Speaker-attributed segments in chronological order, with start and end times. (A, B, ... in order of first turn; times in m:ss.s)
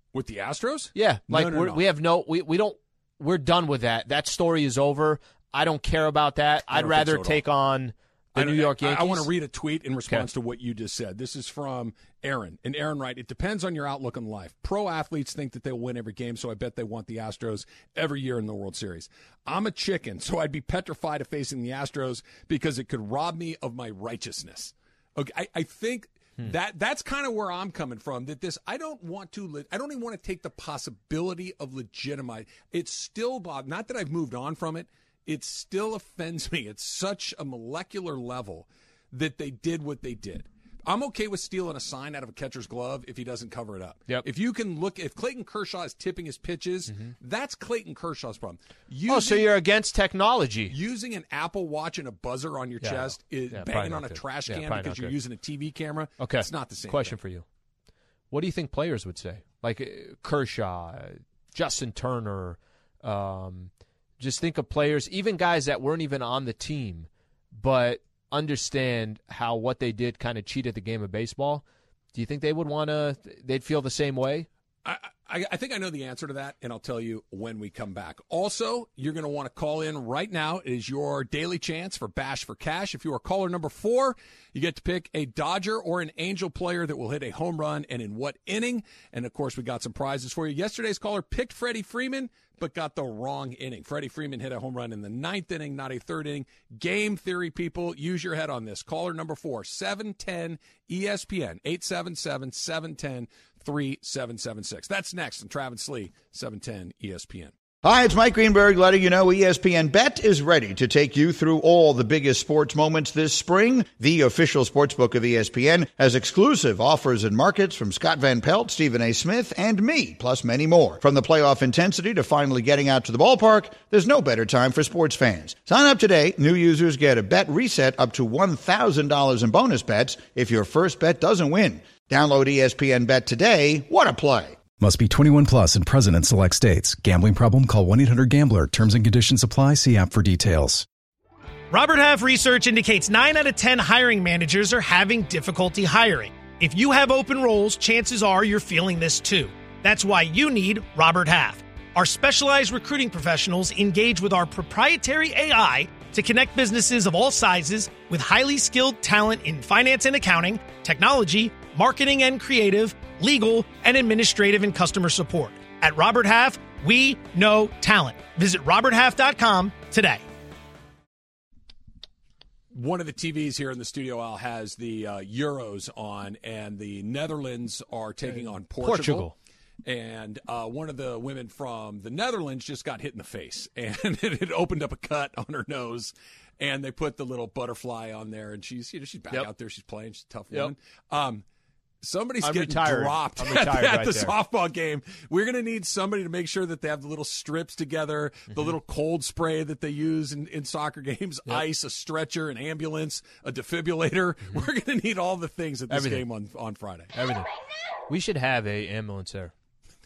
0:00.1-0:01.8 A
0:00.9-0:09.3 B
0:06.7-0:07.4 A
0:08.4-0:49.5 A
0:49.1-0:50.7 B
0:50.7-0:57.2 A
0:52.8-0:55.1 B
0:56.2-0:57.4 B
0:58.3-1:14.5 B
1:14.8-1:47.5 A
1:47.8-2:14.6 C
2:14.8-2:20.9 D
2:21.7-2:50.2 E
2:52.7-2:59.3 A
2:58.8-2:59.3 B
2:59.8-3:11.4 A
3:12.0-3:27.1 A
3:12.4-3:14.3 B
3:25.9-3:26.2 B
3:27.1-3:27.5 B
3:28.1-3:29.5 B